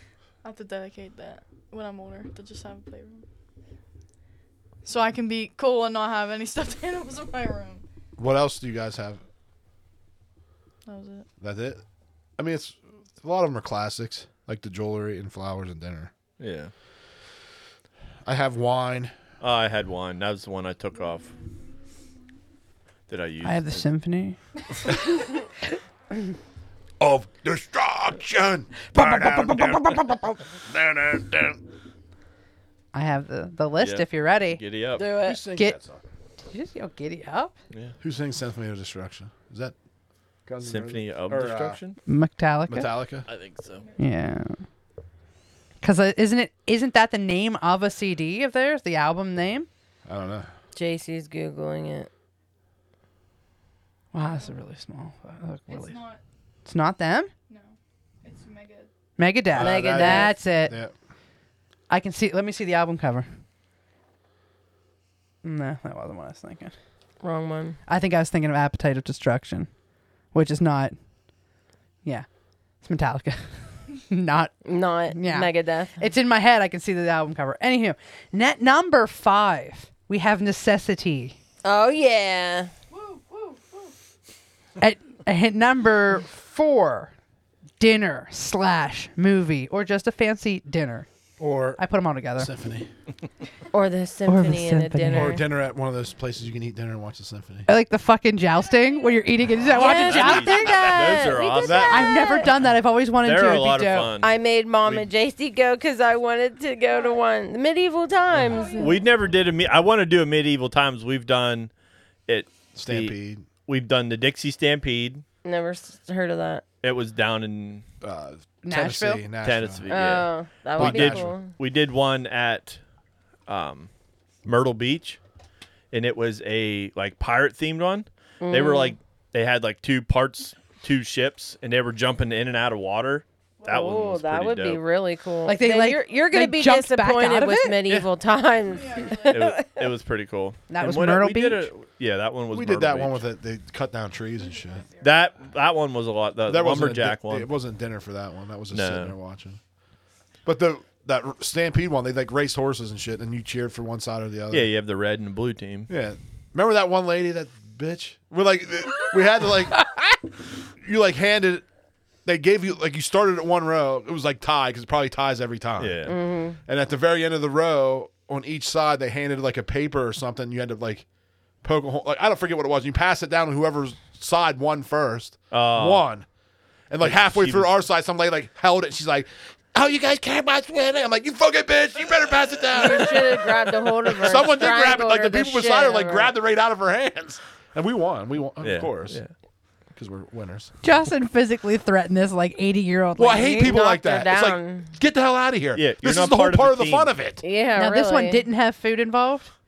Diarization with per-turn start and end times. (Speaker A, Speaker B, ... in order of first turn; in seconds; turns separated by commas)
Speaker A: 0.4-3.2, Speaker A: 4.8-7.8, Speaker B: 8.2-9.2, Speaker A: 10.8-11.3, Speaker B: 11.4-11.8, Speaker B: 12.4-16.1, Speaker C: 16.4-16.7, Speaker B: 18.2-19.1, Speaker C: 19.4-21.3, Speaker C: 23.1-23.8, Speaker D: 23.4-24.4, Speaker B: 27.0-31.6, Speaker D: 28.9-30.3, Speaker D: 32.9-34.6, Speaker C: 33.8-35.0, Speaker E: 35.0-35.4, Speaker B: 35.1-36.0, Speaker D: 36.4-37.5, Speaker B: 38.0-39.7, Speaker B: 40.5-41.8, Speaker C: 40.6-42.0, Speaker D: 42.0-42.9, Speaker B: 42.7-43.2, Speaker C: 43.3-43.9, Speaker D: 44.0-44.6, Speaker D: 45.8-49.7, Speaker B: 50.0-50.5, Speaker E: 50.7-52.1, Speaker D: 54.1-56.1, Speaker A: 55.7-56.2, Speaker D: 56.6-57.3, Speaker A: 57.5-58.9, Speaker D: 59.2-60.7, Speaker B: 59.5-60.9, Speaker E: 59.5-60.3, Speaker D: 61.9-63.3, Speaker D: 65.4-66.7, Speaker E: 67.2-67.8, Speaker D: 67.9-69.7, Speaker D: 70.3-70.9, Speaker D: 72.8-81.3, Speaker E: 74.6-76.0, Speaker E: 81.6-82.7, Speaker A: 83.0-83.8, Speaker D: 84.8-87.1, Speaker D: 87.8-91.1, Speaker B: 91.4-91.8, Speaker D: 91.8-92.5, Speaker B: 92.4-92.9, Speaker E: 93.7-95.4, Speaker D: 94.2-95.4, Speaker B: 95.1-97.7, Speaker D: 97.7-100.8, Speaker E: 99.7-102.5, Speaker C: 99.9-102.4, Speaker B: 100.0-102.0, Speaker D: 101.8-104.1, Speaker C: 103.2-104.3, Speaker E: 104.2-109.0, Speaker B: 108.3-108.6, Speaker A: 108.5-108.9, Speaker C: 108.8-111.7, Speaker C: 112.3-113.1, Speaker B: 112.7-113.4, Speaker C: 113.7-115.2, Speaker E: 115.4-116.6, Speaker C: 116.8-117.8, Speaker B: 118.0-119.9, Speaker D: 118.6-119.2, Speaker C: 119.4-122.8, Speaker E: 119.9-121.5, Speaker B: 120.8-121.3, Speaker C: 123.5-123.9, Speaker C: 124.4-125.2, Speaker C: 125.9-134.8, Speaker E: 128.4-128.9, Speaker E: 133.7-139.9, Speaker D: 135.4-138.1, Speaker A: 138.7-139.6, Speaker C: 139.3-143.2, Speaker D: 140.7-141.7, Speaker B: 142.5-144.9, Speaker A: 144.4-145.2, Speaker C: 145.0-147.5, Speaker B: 146.5-149.6, Speaker C: 148.7-149.1, Speaker B: 150.4-154.7, Speaker C: 154.5-155.9, Speaker B: 155.9-160.2, Speaker B: 160.8-161.6, Speaker B: 162.2-171.1, Speaker C: 165.8-166.1, Speaker E: 166.1-166.6, Speaker B: 171.6-176.3, Speaker C: 175.5-176.0, Speaker B: 176.9-189.2, Speaker C: 177.0-177.7, Speaker E: 182.7-186.3, Speaker C: 188.6-189.3, Speaker B: 189.9-190.7, Speaker D: 190.8-193.8, Speaker B: 193.2-197.4, Speaker E: 193.6-194.9, Speaker C: 195.7-197.1, Speaker E: 197.4-198.4, Speaker D: 197.8-199.5